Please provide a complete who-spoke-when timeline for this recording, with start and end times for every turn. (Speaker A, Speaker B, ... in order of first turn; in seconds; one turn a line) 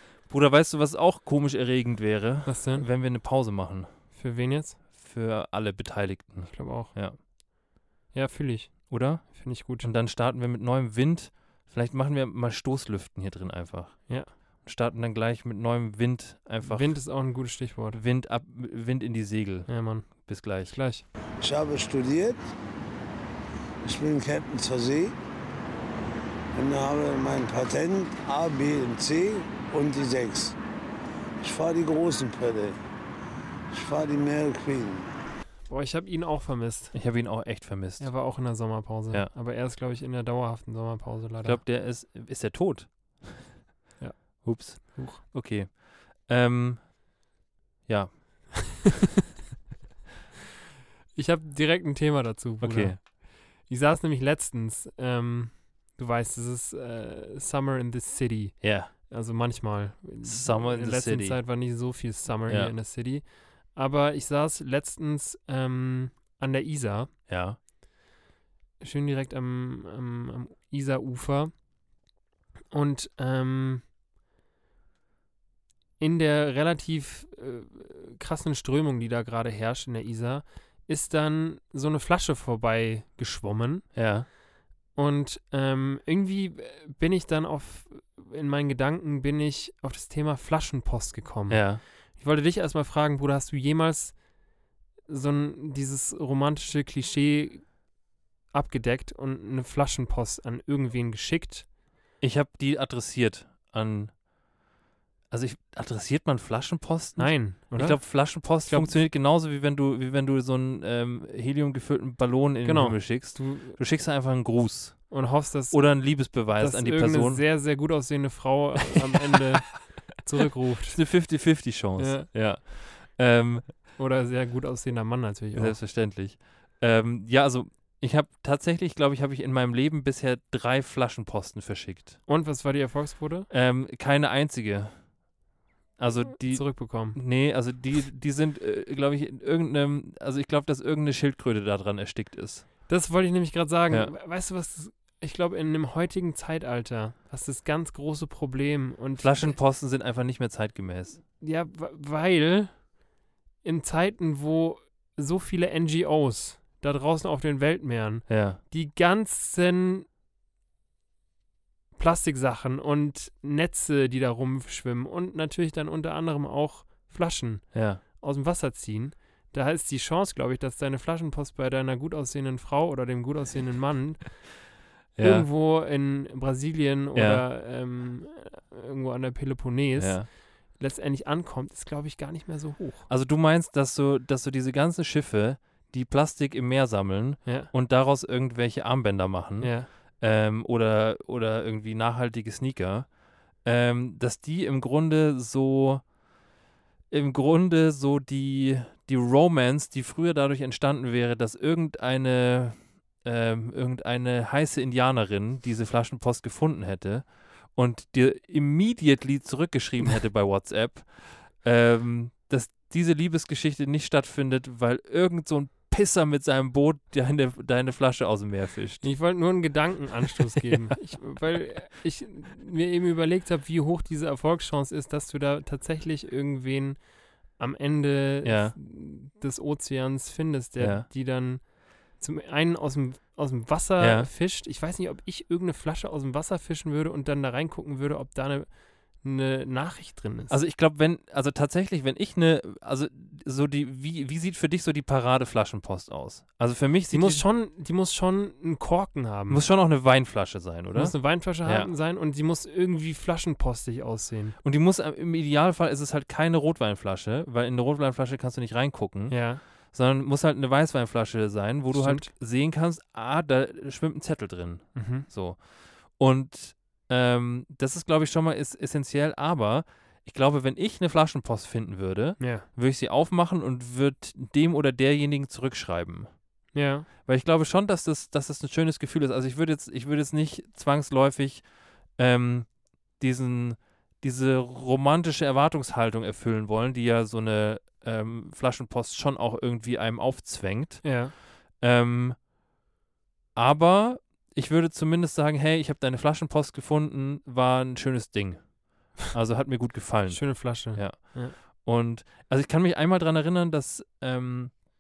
Speaker A: 0.2-3.9
Speaker B: 2.5-2.9
Speaker B: 4.1-4.8
Speaker A: 4.9-7.2
Speaker B: 6.5-7.2
Speaker B: 8.1-9.9
Speaker A: 8.9-17.1
Speaker B: 14.1-14.3
Speaker B: 16.6-18.0
Speaker A: 17.9-20.8
Speaker B: 19.7-21.1
Speaker C: 21.4-22.5
Speaker C: 23.8-25.1
Speaker C: 26.5-30.6
Speaker C: 31.4-32.8
Speaker C: 33.7-35.1
Speaker B: 35.7-37.0
Speaker A: 36.9-38.1
Speaker B: 38.0-41.6
Speaker A: 41.4-43.5
Speaker B: 44.0-45.2
Speaker A: 44.4-46.9
Speaker A: 47.9-48.9
Speaker B: 51.1-67.3
Speaker A: 52.6-53.0
Speaker A: 58.6-58.9
Speaker A: 60.2-61.4
Speaker A: 62.5-62.7
Speaker A: 67.3-67.6
Speaker B: 68.8-71.7
Speaker B: 72.7-73.8
Speaker B: 76.0-84.0
Speaker A: 83.9-84.3
Speaker B: 84.9-94.2
Speaker A: 91.5-91.8
Speaker B: 95.1-97.9
Speaker B: 98.5-101.7
Speaker A: 102.2-104.2
Speaker A: 105.3-117.5
Speaker B: 107.2-109.0
Speaker B: 112.6-113.8
Speaker B: 115.1-121.3
Speaker A: 120.9-123.9
Speaker B: 122.0-122.3
Speaker B: 124.0-125.8
Speaker A: 125.5-132.2
Speaker B: 132.3-133.5
Speaker A: 133.5-134.9
Speaker A: 136.0-142.7
Speaker B: 136.4-137.2
Speaker B: 142.9-149.6
Speaker A: 149.2-151.2
Speaker B: 151.4-152.9
Speaker B: 153.6-160.1
Speaker A: 158.3-158.6
Speaker B: 161.9-183.1
Speaker A: 167.7-168.0
Speaker A: 175.2-175.5
Speaker A: 177.2-177.4
Speaker A: 180.0-180.3
Speaker A: 183.1-196.1
Speaker B: 187.5-187.7
Speaker B: 189.6-189.9
Speaker A: 197.1-219.2
Speaker B: 219.0-240.6
Speaker A: 228.4-228.8
Speaker A: 230.8-231.1
Speaker A: 234.0-234.3
Speaker A: 240.5-247.4
Speaker B: 247.1-249.6
Speaker A: 249.5-251.9
Speaker B: 250.9-254.6
Speaker A: 254.6-276.3
Speaker B: 259.3-259.6
Speaker B: 261.9-262.3
Speaker B: 264.9-265.3
Speaker B: 272.4-272.7
Speaker B: 276.7-277.1
Speaker A: 277.2-292.4
Speaker B: 291.0-291.4
Speaker A: 293.6-304.8
Speaker B: 300.2-301.6